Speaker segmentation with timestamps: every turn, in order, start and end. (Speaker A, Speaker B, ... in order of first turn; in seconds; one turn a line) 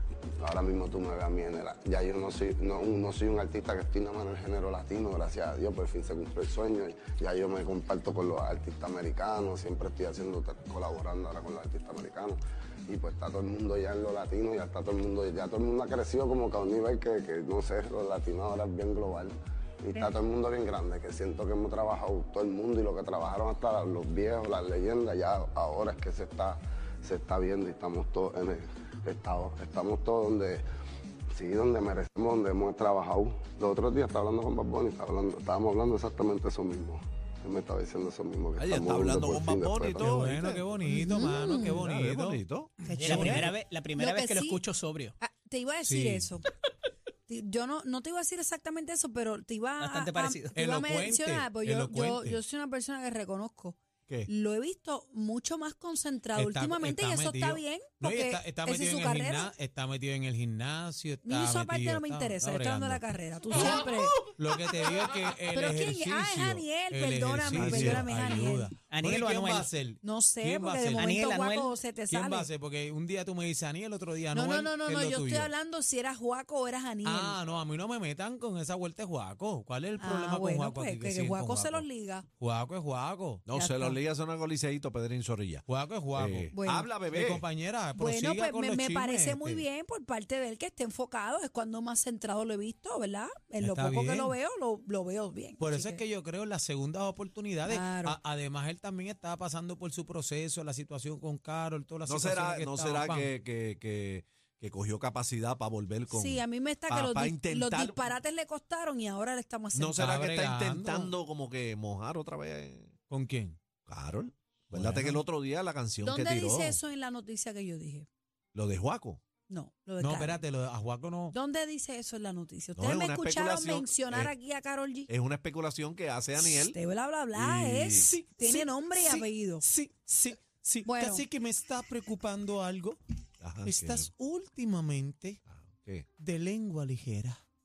Speaker A: 0.4-30.6
Speaker A: 31.3-40.4
Speaker B: 38.6-42.7
Speaker C: 40.0-43.5
Speaker D: 40.9-41.8
Speaker D: 42.8-44.6
Speaker E: 42.9-45.1
Speaker D: 45.2-46.5
Speaker C: 45.9-46.4
Speaker D: 47.3-59.5
Speaker E: 49.8-50.5
Speaker C: 50.5-52.4
Speaker C: 56.3-63.0
Speaker D: 61.2-64.2
Speaker B: 63.6-63.9
Speaker C: 64.3-71.1
Speaker D: 65.5-68.7
Speaker B: 67.5-68.1
Speaker E: 68.9-69.7
Speaker D: 70.0-72.5
Speaker E: 70.9-71.7
Speaker C: 72.1-75.5
Speaker D: 74.3-77.4
Speaker C: 77.0-81.8
Speaker D: 80.0-82.2
Speaker C: 82.4-83.5
Speaker B: 83.5-87.4
Speaker D: 83.5-84.0
Speaker C: 85.7-86.5
Speaker D: 86.5-86.9
Speaker C: 87.1-89.7
Speaker D: 88.0-96.0
Speaker C: 93.6-94.3
Speaker C: 95.6-103.3
Speaker D: 97.6-98.2
Speaker B: 102.1-108.2
Speaker D: 106.1-110.1
Speaker B: 109.7-113.0
Speaker C: 110.0-111.1
Speaker C: 113.1-113.6
Speaker B: 113.8-116.8
Speaker C: 114.7-115.2
Speaker D: 116.0-118.1
Speaker B: 118.5-119.2
Speaker D: 119.5-120.4
Speaker C: 120.0-121.4
Speaker D: 121.3-125.1
Speaker B: 122.8-124.3
Speaker B: 125.1-126.8
Speaker D: 126.4-129.6
Speaker B: 127.3-128.1
Speaker C: 127.9-133.0
Speaker D: 130.8-131.2
Speaker B: 133.4-134.1
Speaker C: 133.6-135.4
Speaker B: 135.5-136.1
Speaker C: 136.2-137.4